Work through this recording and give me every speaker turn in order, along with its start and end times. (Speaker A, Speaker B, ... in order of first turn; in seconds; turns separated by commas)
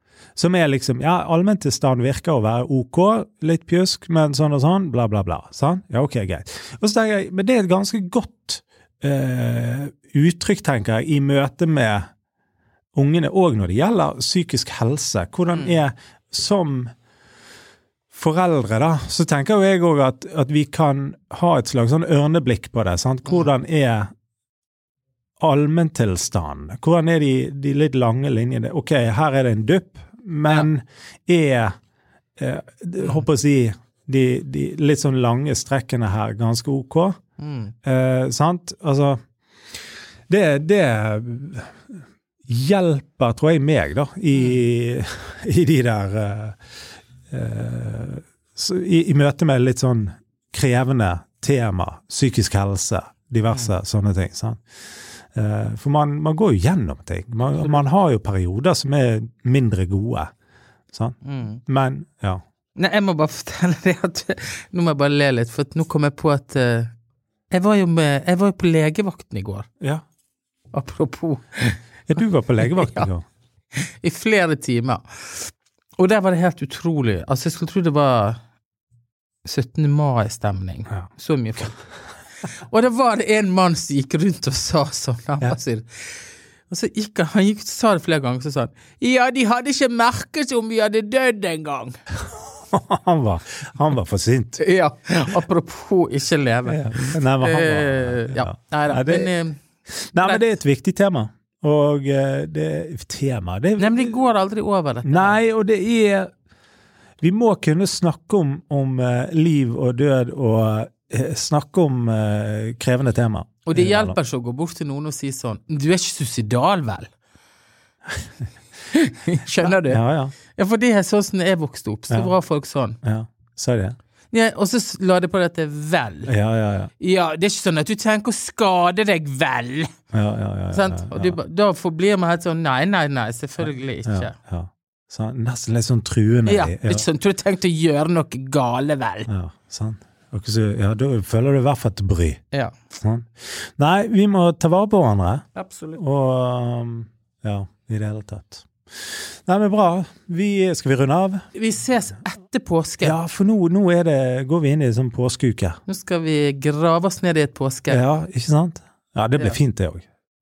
Speaker A: 0.4-12.1, Speaker A: 12.9-16.9, Speaker A: 18.1-24.1, Speaker A: 25.4-31.7, Speaker A: 32.4-37.2, Speaker B: 37.4-37.7, Speaker A: 37.8-39.2, Speaker A: 40.3-46.6, Speaker B: 44.3-44.6, Speaker A: 47.3-54.6, Speaker A: 55.3-60.3, Speaker B: 57.5-57.8, Speaker A: 60.9-62.4, Speaker B: 61.2-61.6, Speaker B: 62.8-66.9, Speaker B: 67.5-69.7, Speaker B: 70.7-71.8, Speaker A: 72.1-73.2, Speaker B: 72.6-73.1, Speaker B: 73.7-78.4, Speaker B: 79.4-81.8, Speaker B: 82.7-92.0, Speaker A: 92.7-94.6, Speaker B: 94.6-99.6, Speaker A: 96.7-99.3, Speaker A: 100.0-104.2, Speaker B: 100.2-100.4, Speaker B: 103.8-105.4, Speaker A: 105.0-106.3, Speaker A: 107.2-114.2, Speaker B: 113.6-117.1, Speaker B: 118.9-120.0, Speaker A: 119.6-120.3, Speaker B: 120.5-123.0, Speaker A: 123.0-124.0, Speaker B: 124.3-126.3, Speaker A: 126.3-126.9, Speaker B: 127.0-129.9, Speaker A: 130.1-131.4, Speaker B: 130.7-134.3, Speaker A: 133.6-137.1, Speaker B: 136.4-139.3, Speaker A: 139.3-142.4, Speaker A: 143.0-151.4, Speaker B: 145.5-146.0, Speaker B: 151.5-153.2, Speaker A: 153.0-155.8, Speaker B: 155.9-158.0, Speaker A: 157.9-160.0